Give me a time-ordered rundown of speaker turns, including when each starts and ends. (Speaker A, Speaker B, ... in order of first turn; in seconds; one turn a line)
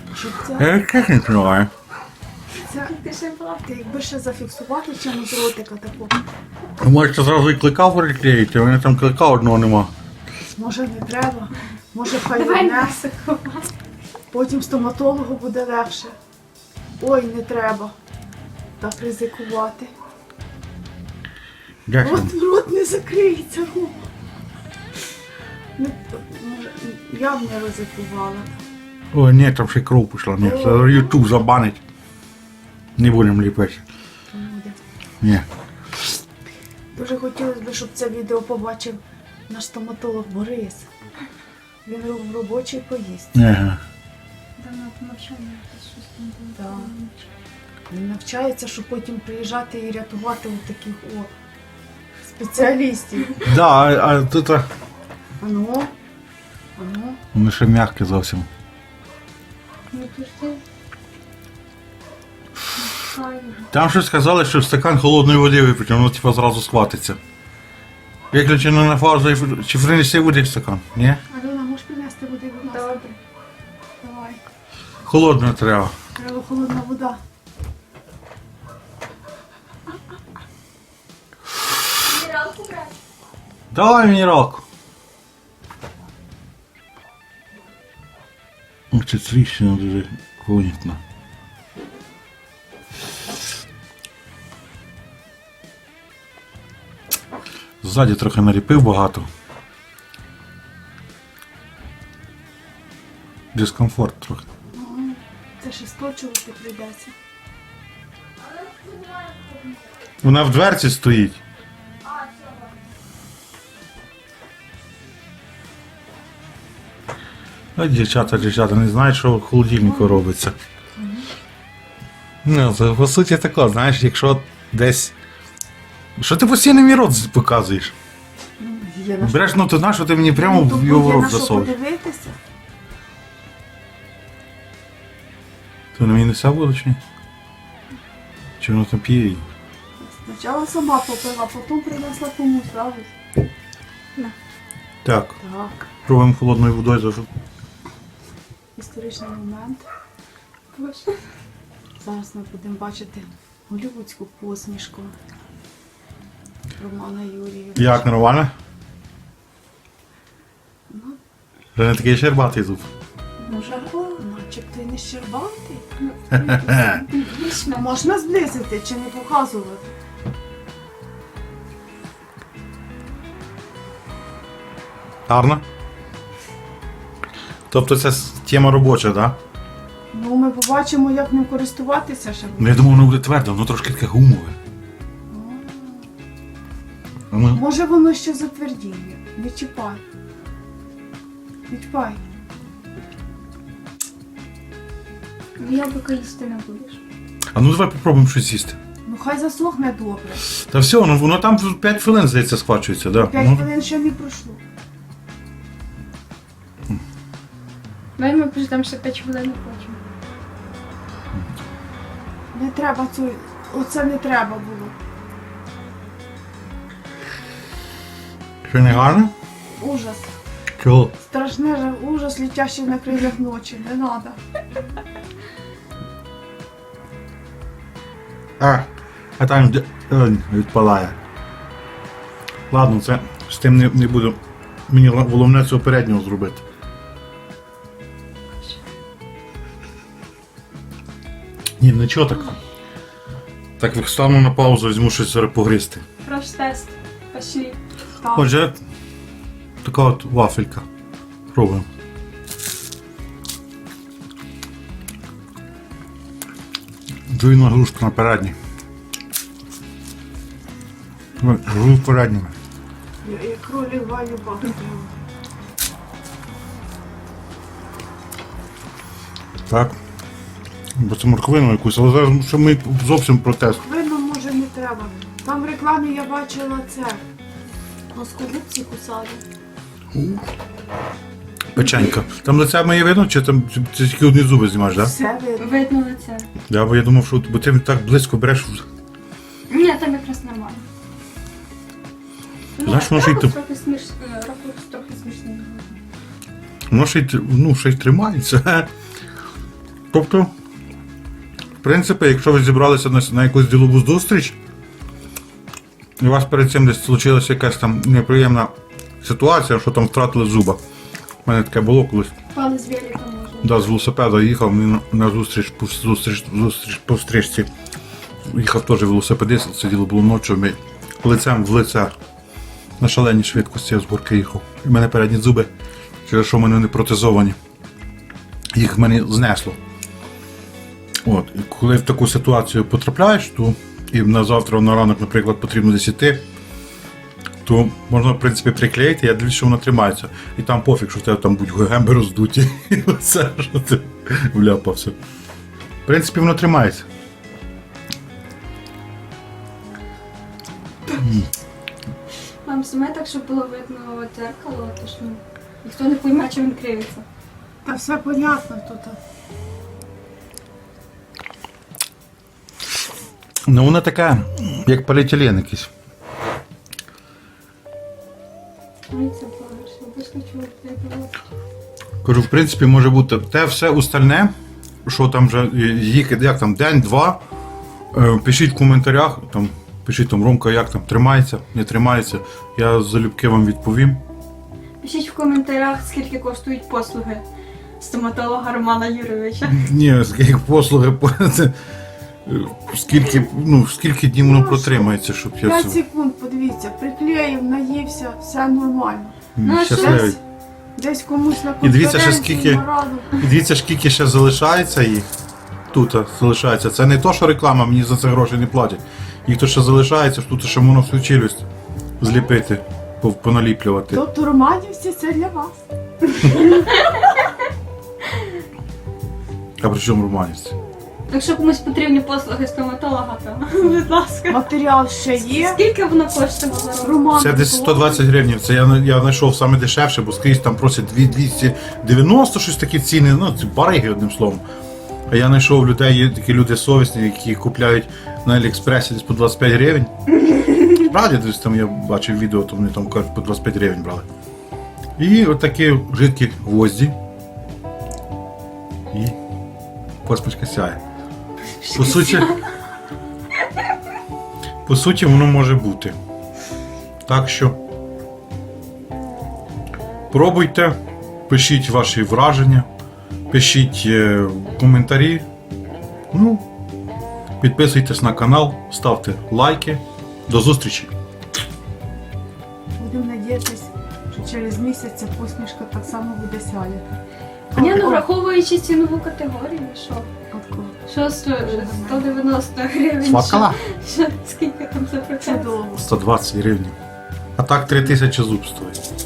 Speaker A: 0.1-0.7
Speaker B: 0.6-1.7
Speaker A: 2.6-2.9
Speaker C: 2.7-3.7
Speaker A: 3.6-6.2
Speaker B: 6.8-9.9
Speaker A: 10.5-13.0
Speaker C: 12.2-13.7
Speaker A: 14.3-16.1
Speaker A: 17.0-17.9
Speaker A: 18.8-19.9
Speaker B: 21.9-22.3
Speaker A: 22.0-24.0
Speaker A: 25.8-28.6
Speaker B: 29.1-31.8
Speaker A: 30.4-31.2
Speaker B: 33.0-33.8
Speaker A: 34.3-34.8
Speaker A: 36.9-40.9
Speaker A: 41.8-43.3
Speaker B: 43.3-43.8
Speaker C: 44.6-47.3
Speaker A: 46.5-46.9
Speaker A: 47.9-51.3
Speaker A: 52.2-53.4
Speaker B: 53.4-54.7
Speaker A: 55.4-55.9
Speaker A: 56.8-57.2
Speaker B: 57.3-58.5
Speaker C: 59.9-60.6
Speaker C: 62.8-63.7
Speaker B: 63.7-67.2
Speaker B: 68.3-71.2
Speaker A: 71.3-73.0
Speaker C: 72.6-73.2
Speaker A: 74.0-74.4
Speaker B: 75.0-75.9
Speaker A: 76.2-77.2
Speaker C: 82.0-82.9
Speaker B: 83.7-84.6
Speaker B: 88.9-91.0
Speaker B: 97.8-99.3
Speaker B: 103.5-104.4
Speaker A: 104.7-107.1
Speaker C: 108.4-109.8
Speaker B: 110.2-111.4
Speaker C: 112.0-112.7
Speaker B: 117.8-120.5
Speaker A: 119.8-120.2
Speaker A: 121.0-121.3
Speaker B: 122.4-125.1
Speaker B: 126.2-127.9
Speaker A: 128.6-129.5
Speaker B: 129.2-131.7
Speaker A: 130.3-132.3
Speaker B: 135.9-137.0
Speaker B: 138.6-139.4
Speaker A: 140.0-143.1
Speaker B: 145.0-145.4
Speaker A: 145.4-145.8
Speaker B: 146.0-147.3
Speaker A: 148.8-149.8
Speaker C: 150.7-151.2
Speaker A: 152.0-155.1
Speaker A: 156.8-158.1
Speaker B: 157.8-158.5
Speaker A: 160.9-161.2
Speaker B: 161.7-162.9
Speaker A: 163.4-165.8
Speaker C: 163.4-164.2
Speaker C: 166.0-168.0
Speaker B: 166.3-167.0
Speaker A: 167.7-169.9
Speaker B: 175.3-175.6
Speaker B: 177.7-179.4
Speaker A: 180.1-183.0
Speaker B: 182.6-184.6
Speaker A: 185.3-186.1
Speaker B: 187.3-187.6
Speaker A: 187.5-190.0
Speaker A: 191.7-192.2
Speaker C: 195.6-197.0
Speaker B: 197.5-198.8
Speaker A: 199.1-200.4
Speaker B: 200.4-203.6
Speaker A: 203.2-204.6
Speaker C: 208.2-210.0
Speaker A: 212.5-214.9
Speaker B: 218.6-219.3
Speaker A: 218.8-219.1
Speaker A: 219.7-220.3
Speaker B: 220.8-221.1
Speaker A: 221.2-224.4
Speaker B: 228.6-231.2
Speaker B: 232.7-236.6
Speaker B: 241.8-242.6
Speaker B: 243.8-246.0
Speaker C: 246.2-247.8
Speaker A: 248.2-248.5
Speaker B: 248.3-248.8
Speaker B: 249.8-250.8
Speaker B: 251.5-251.9
Speaker B: 257.3-258.6
Speaker B: 261.4-262.5
Speaker A: 263.2-265.1
Speaker B: 269.7-270.0
Speaker B: 270.9-273.8
Speaker A: 273.7-277.2
Speaker A: 278.1-279.4
Speaker B: 280.1-280.4
Speaker B: 281.7-285.1
Speaker A: 284.9-285.7
Speaker C: 285.6-286.5
Speaker B: 286.7-288.8
Speaker C: 289.7-290.9
Speaker C: 292.8-296.0
Speaker B: 292.8-293.5
Speaker B: 296.9-298.9
Speaker B: 300.1-300.5
Speaker B: 301.8-304.6
Speaker B: 306.2-310.8
Speaker B: 311.4-312.3
Speaker C: 312.5-313.9
Speaker B: 313.6-317.7
Speaker B: 318.4-322.1
Speaker B: 323.0-325.7
Speaker B: 326.2-327.6
Speaker B: 328.7-329.8
Speaker B: 331.2-336.4
Speaker B: 337.6-345.1
Speaker B: 346.1-347.1
Speaker B: 351.2-351.5
Speaker C: 352.6-357.2
Speaker A: 357.8-359.2
Speaker B: 363.7-365.9
Speaker C: 369.1-371.3
Speaker B: 372.2-374.5
Speaker B: 375.1-377.4
Speaker B: 378.1-384.2
Speaker C: 385.0-387.4
Speaker C: 388.0-389.9
Speaker B: 389.6-391.7
Speaker B: 392.4-396.0
Speaker A: 394.4-399.4
Speaker B: 399.6-400.4
Speaker C: 399.6-400.3
Speaker A: 399.9-400.4
Speaker A: 400.9-403.4
Speaker B: 401.8-405.3
Speaker B: 405.9-411.6
Speaker B: 412.2-414.2
Speaker A: 414.1-415.7
Speaker C: 416.4-417.5
Speaker B: 419.8-420.7
Speaker C: 421.3-424.7
Speaker A: 424.5-425.8
Speaker C: 425.4-427.2
Speaker A: 427.0-428.2
Speaker B: 427.3-434.6
Speaker B: 435.3-440.1
Speaker B: 440.8-444.3
Speaker B: 445.2-447.1
Speaker B: 450.2-451.0
Speaker C: 451.8-452.6
Speaker B: 451.9-452.6
Speaker B: 454.8-456.1
Speaker B: 457.2-457.8
Speaker B: 460.3-462.9
Speaker B: 463.5-465.4
Speaker B: 466.3-466.6
Speaker B: 467.6-471.1
Speaker A: 473.0-477.2
Speaker C: 477.7-480.3
Speaker A: 477.7-478.3
Speaker A: 480.5-482.3
Speaker C: 481.1-485.7
Speaker B: 483.2-483.8
Speaker A: 485.4-486.0
Speaker B: 486.0-486.9
Speaker B: 487.6-489.0